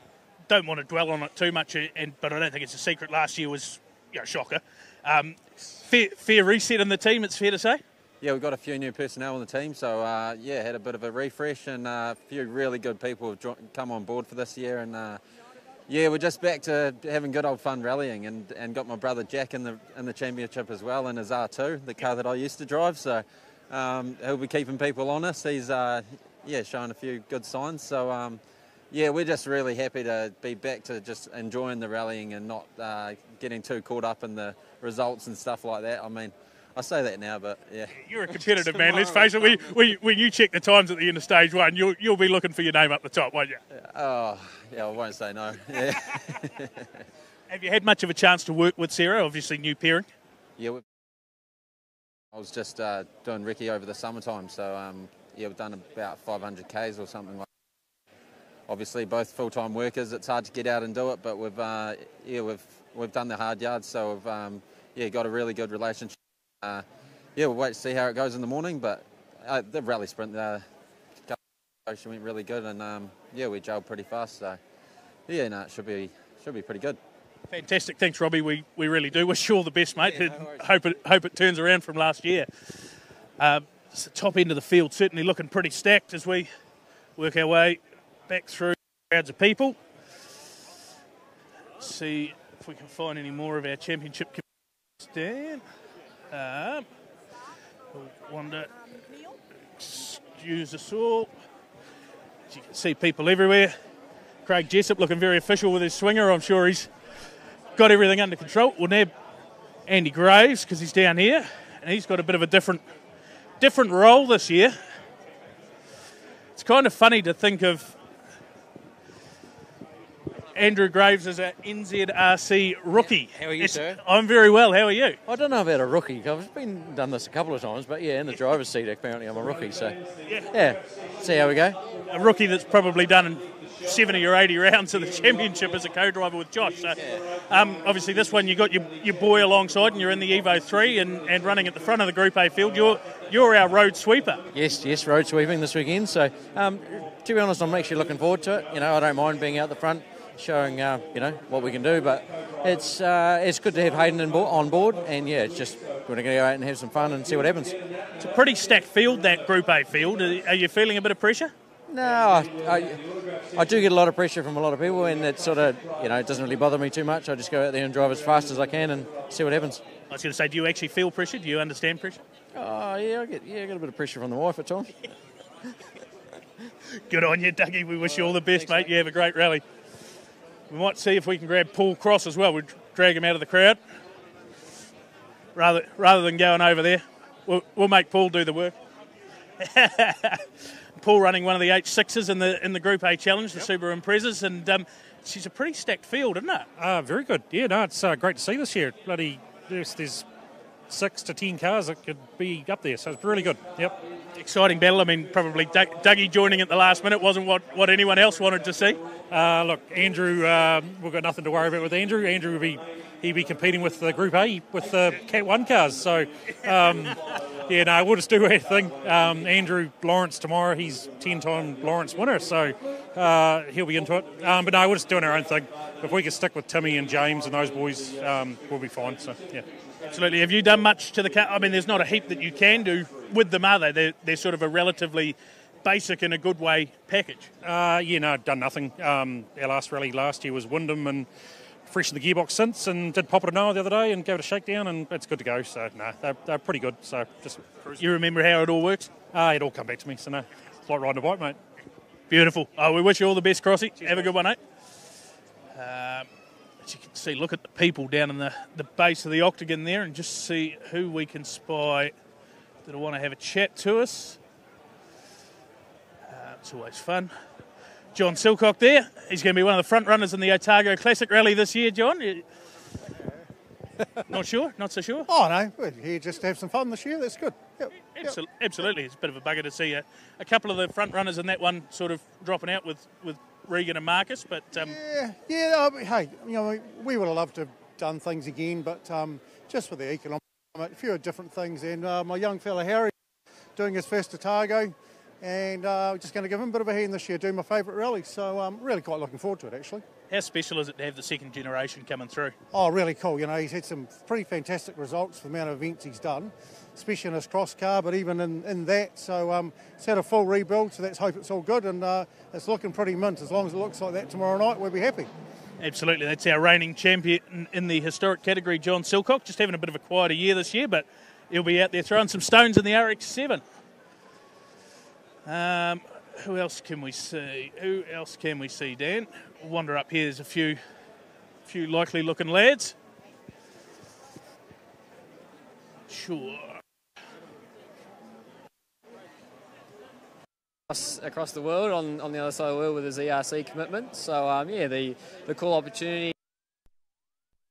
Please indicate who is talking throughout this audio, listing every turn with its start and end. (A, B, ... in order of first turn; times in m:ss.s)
0:00.5-0:07.8 A
0:08.2-0:15.2 B
0:15.9-0:37.9 B
0:38.0-0:43.6 A
0:43.7-0:46.9 B
0:47.5-0:50.0 A
0:50.6-0:50.8 B
0:52.3-0:57.5 B
0:58.7-1:06.8 B
1:07.4-1:10.6 B
1:11.3-1:14.6 B
1:15.3-1:17.0 B
1:17.5-1:26.5 A
1:27.2-1:29.8 A
1:31.8-1:34.4 A
1:35.0-1:35.6 A
1:36.3-1:36.8 A
1:37.9-1:38.7 A
1:39.8-1:41.3 A
1:42.5-1:43.7 A
1:44.4-1:46.9 A
1:47.8-1:49.1 A
1:49.9-1:52.8 A
1:53.6-1:54.7 A
1:56.6-1:57.9 A
2:00.5-2:05.2 A
2:02.9-2:04.0 C
2:05.2-2:11.8 C
2:12.1-2:24.4 A
2:24.5-2:37.8 C
2:38.2-2:41.5 A
2:41.9-2:49.8 C
2:50.1-2:52.2 A
2:52.5-2:55.0 C
2:57.1-2:59.6 A
3:00.7-3:03.8 A
3:05.5-3:08.8 A
3:09.6-3:16.7 A
3:16.8-3:20.2 D
3:20.9-3:24.0 D
3:24.4-3:29.0 A
3:29.3-3:49.6 D
3:50.1-3:57.5 A
3:57.6-4:01.3 D
4:01.8-4:08.0 D
4:08.0-4:09.1 A
4:09.3-4:11.6 D
4:12.3-4:14.6 A
4:15.7-4:16.3 A
4:16.8-4:22.1 A
4:22.8-4:24.4 A
4:26.2-4:27.3 A
4:28.1-4:32.4 A
4:34.3-4:35.3 A
4:35.3-4:38.4 E
4:38.1-4:44.9 A
4:44.7-4:53.1 E
4:53.8-5:00.0 E
5:00.3-5:02.5 A
5:02.7-5:15.3 E
5:15.8-5:23.6 A
5:25.4-5:30.8 A
5:31.6-5:32.9 A
5:36.1-5:36.8 A
5:40.9-5:46.3 F